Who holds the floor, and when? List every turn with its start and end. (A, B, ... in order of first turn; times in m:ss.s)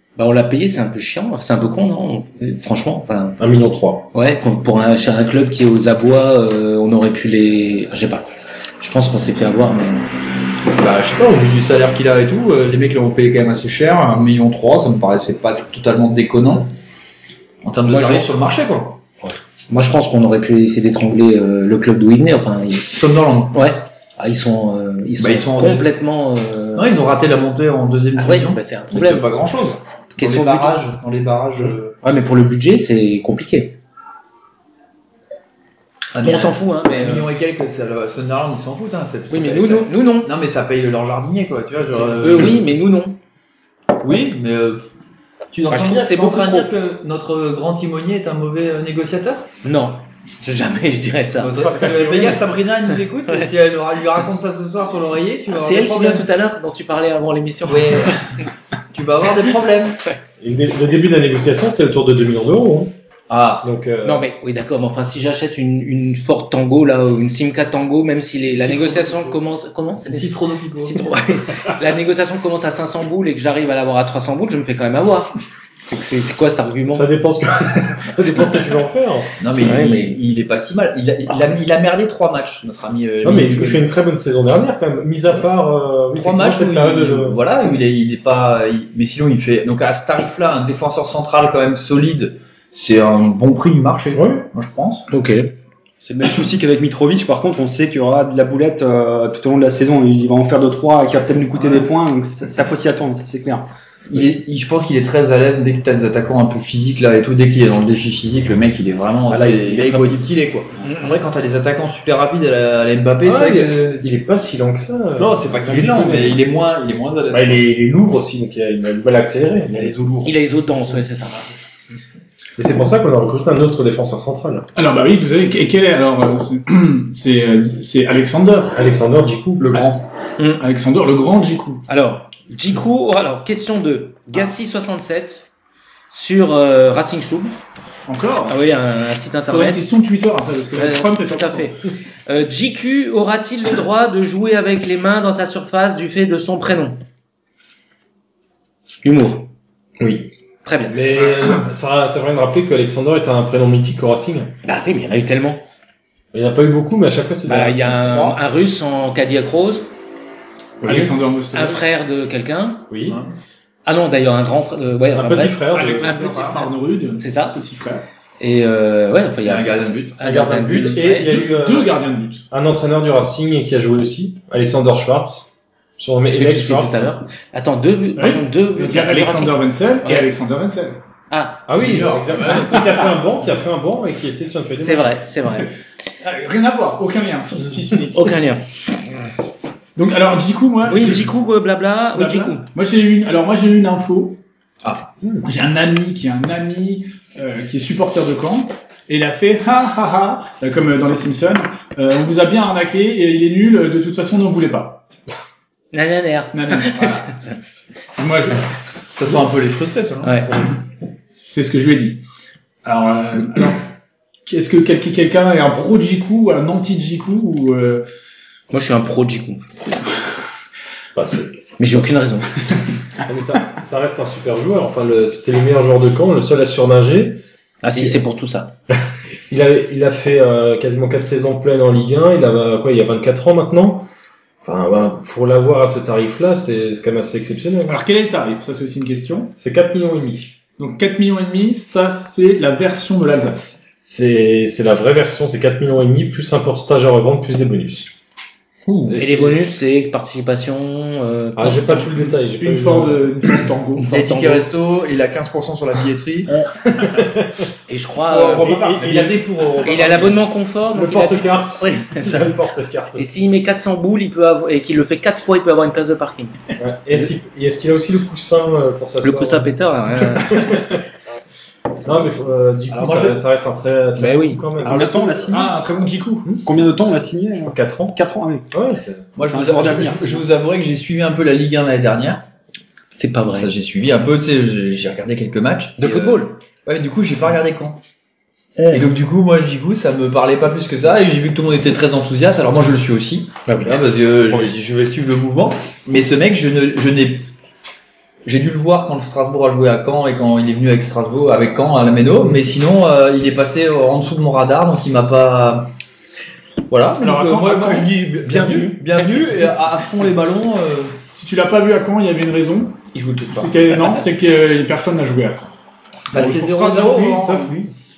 0:00.2-0:03.4 A
0:03.4-0:04.1 B
0:04.1-0:08.3 A
0:08.8-0:10.1 A
0:10.8-0:16.7 C
0:17.6-0:19.0 C
0:17.9-0:18.3 A
0:19.2-0:23.0 A
0:22.9-0:23.6 C
0:23.5-0:27.0 A
0:25.2-0:25.9 C
0:26.8-0:31.9 C
0:28.2-0:29.3 A
0:30.2-0:30.9 A
0:32.0-0:33.8 A
0:36.1-0:42.6 C
0:36.2-0:37.3 A
0:39.3-0:40.3 A
0:41.8-0:42.6 B
0:42.2-0:43.2 A
0:44.0-0:44.8 C
0:45.5-0:49.5 C
0:45.7-0:46.7 A
0:49.6-0:51.5 A
0:51.4-0:56.3 C
0:51.6-0:52.4 B
0:55.5-0:58.5 A
0:57.7-0:58.3 C
0:58.9-1:00.0 C
1:00.4-1:02.9 B
1:03.3-1:03.7 C
1:03.6-1:04.3 B
1:04.0-1:17.1 A
1:08.5-1:09.4 C
1:10.1-1:11.0 C
1:16.9-1:19.4 B
1:19.4-1:23.8 C
1:19.6-1:20.2 A
1:23.2-1:27.4 B
1:26.1-1:35.1 C
1:34.1-1:34.4 B
1:35.1-1:35.5 A
1:36.0-1:44.4 D
1:41.6-1:41.9 C
1:44.1-1:54.2 C
1:49.3-1:50.2 D
1:50.8-1:51.2 A
1:53.2-1:56.4 B
1:55.2-1:57.7 C
1:57.3-2:00.0 B
1:59.7-2:00.4 C
2:00.2-2:01.6 A
2:02.6-2:04.7 B
2:04.8-2:08.8 E
2:08.7-2:09.8 B
2:09.6-2:10.1 C
2:10.4-2:10.6 A
2:10.6-2:11.9 E
2:11.9-2:15.5 A
2:16.1-2:17.5 A
2:18.1-2:18.6 E
2:18.5-2:19.8 A
2:19.5-2:21.7 E
2:20.8-2:27.0 A
2:29.0-2:29.5 A
2:30.0-2:30.3 B
2:30.6-2:31.2 A
2:30.9-2:34.6 B
2:34.6-2:35.6 A
2:36.3-2:38.4 B
2:37.5-2:39.9 A
2:40.8-2:41.1 B
2:40.8-2:41.8 E
2:41.5-2:42.9 A
2:42.9-2:43.2 B
2:43.0-2:43.4 C
2:43.9-2:47.6 A
2:45.1-2:46.1 B
2:45.7-2:48.1 E
2:46.1-2:46.6 C
2:48.4-2:51.3 A
2:49.4-2:50.2 C
2:50.2-2:52.0 B
2:51.2-2:52.4 E
2:52.5-2:57.2 B
2:56.3-3:00.3 A
2:58.2-3:01.0 E
3:01.3-3:01.7 A
3:01.7-3:05.2 B
3:01.8-3:02.8 C
3:04.8-3:05.7 A
3:06.2-3:08.3 E
3:08.1-3:08.6 A
3:10.0-3:11.3 E
3:10.8-3:12.7 A
3:12.1-3:14.4 E
3:14.8-3:15.1 C
3:15.4-3:25.0 E
3:25.9-3:27.5 A
3:26.5-3:27.3 E
3:28.2-3:28.6 E
3:29.1-3:30.4 C
3:30.2-3:30.7 A
3:31.4-3:32.2 E
3:32.8-3:33.8 E
3:34.5-3:38.0 E
3:38.7-3:39.8 A
3:41.2-3:41.5 B
3:41.8-3:42.6 A
3:43.3-3:47.4 B
3:47.8-3:48.7 A
3:49.5-3:54.1 B
3:54.6-3:58.0 B
3:57.9-3:59.5 E
3:59.6-4:00.6 B
4:00.8-4:03.8 E
4:04.0-4:08.1 B
4:08.9-4:09.5 C
4:09.1-4:12.2 A
4:11.6-4:13.4 B
4:12.6-4:14.1 E
4:14.0-4:14.7 A
4:14.1-4:16.5 C
4:16.9-4:17.6 B
4:17.9-4:18.8 A
4:18.3-4:20.4 C
4:18.5-4:19.4 B
4:19.8-4:22.6 A
4:20.9-4:23.3 B
4:23.2-4:26.6 A
4:26.8-4:29.7 B
4:29.2-4:30.7 A
4:30.3-4:31.0 B
4:32.0-4:35.5 B
4:32.9-4:33.4 C
4:34.2-4:34.6 A
4:34.8-4:35.8 D
4:35.5-4:36.5 E
4:36.6-4:38.7 D
4:37.6-4:38.2 B
4:38.7-4:39.3 B
4:39.4-4:42.4 C
4:39.4-4:40.4 D
4:43.1-4:43.7 A
4:43.5-4:48.0 C
4:46.0-4:46.5 A
4:48.8-4:49.1 A
4:48.9-4:57.5 C
4:53.7-4:54.0 A
4:58.4-5:05.9 C
5:06.9-5:11.2 C
5:07.2-5:08.2 E
5:08.9-5:09.7 A
5:11.3-5:15.7 E
5:13.1-5:13.7 C
5:16.3-5:17.6 E
5:16.3-5:17.7 C
5:17.2-5:17.9 B